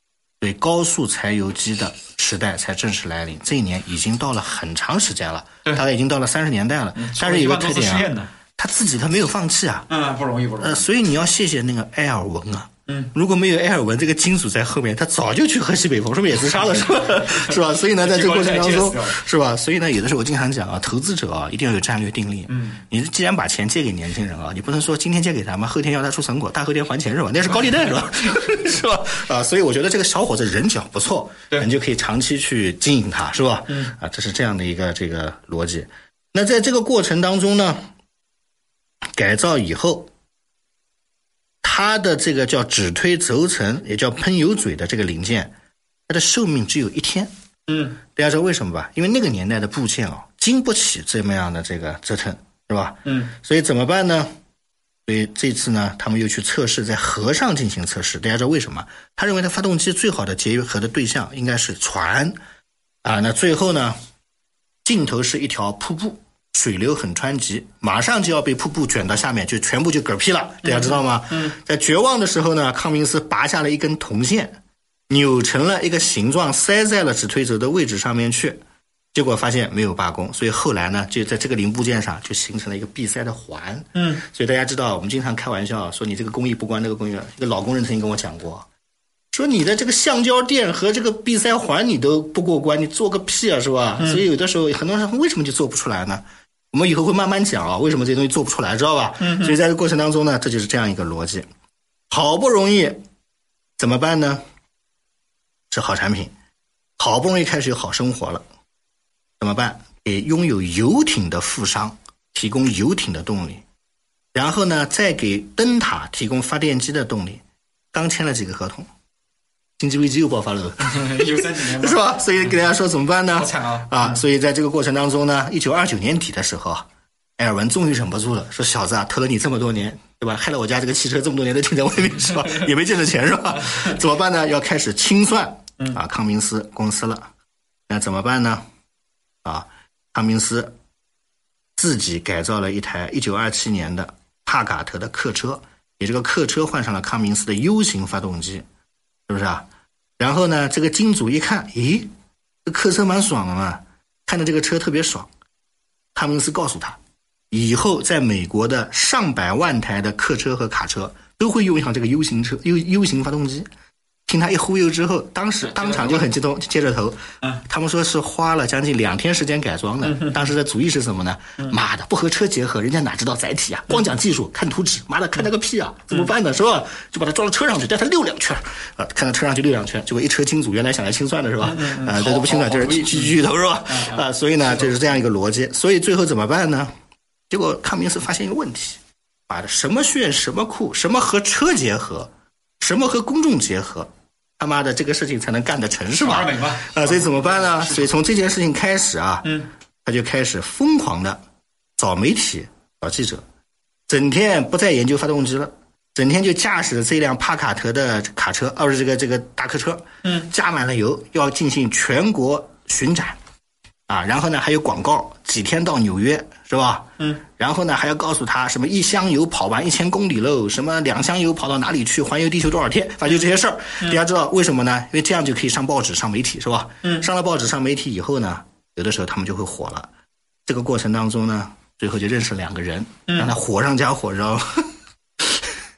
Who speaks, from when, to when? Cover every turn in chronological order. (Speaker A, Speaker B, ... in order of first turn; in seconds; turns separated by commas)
Speaker A: 0.4-9.9, Speaker B: 6.9-8.3, Speaker B: 9.9-10.8, Speaker A: 10.6-37.8, Speaker B: 12.9-13.1, Speaker B: 16.5-19.2, Speaker B: 22.5-22.8, Speaker B: 33.7-33.9, Speaker A: 39.1-40.1, Speaker A: 41.6-45.5, Speaker A: 46.1-47.3, Speaker B: 47.7-48.0, Speaker A: 48.1-54.3, Speaker B: 53.0-53.3, Speaker A: 55.1-62.4, Speaker A: 63.0-64.0, Speaker A: 64.8-78.6, Speaker B: 70.6-71.5, Speaker A: 79.1-88.7, Speaker B: 83.9-84.2, Speaker A: 89.3-101.5, Speaker B: 94.0-94.2, Speaker B: 99.2-99.6, Speaker A: 102.1-103.0, Speaker A: 103.8-104.4, Speaker A: 105.7-106.3, Speaker A: 107.0-108.4, Speaker A: 109.4-113.6, Speaker A: 114.3-117.4, Speaker A: 117.9-118.9, Speaker A: 119.8-126.8, Speaker B: 120.8-122.6, Speaker B: 123.3-124.2, Speaker A: 127.4-137.3, Speaker A: 137.9-138.6, Speaker A: 139.4-140.7, Speaker A: 141.8-148.7, Speaker A: 149.3-149.7, Speaker A: 150.2-152.1, Speaker A: 152.6-155.3, Speaker A: 156.1-157.0, Speaker A: 157.5-163.7, Speaker A: 164.3-186.9, Speaker B: 165.6-166.3, Speaker B: 170.0-170.4, Speaker B: 181.6-183.4, Speaker B: 183.9-185.0, Speaker A: 187.5-201.4, Speaker B: 196.2-198.1, Speaker B: 199.4-199.7, Speaker A: 202.0-203.4, Speaker A: 204.1-213.4, Speaker B: 210.2-210.5, Speaker A: 214.1-230.1, Speaker B: 217.2-217.4, Speaker B: 227.0-227.3, Speaker A: 230.7-234.9, Speaker B: 233.3-233.5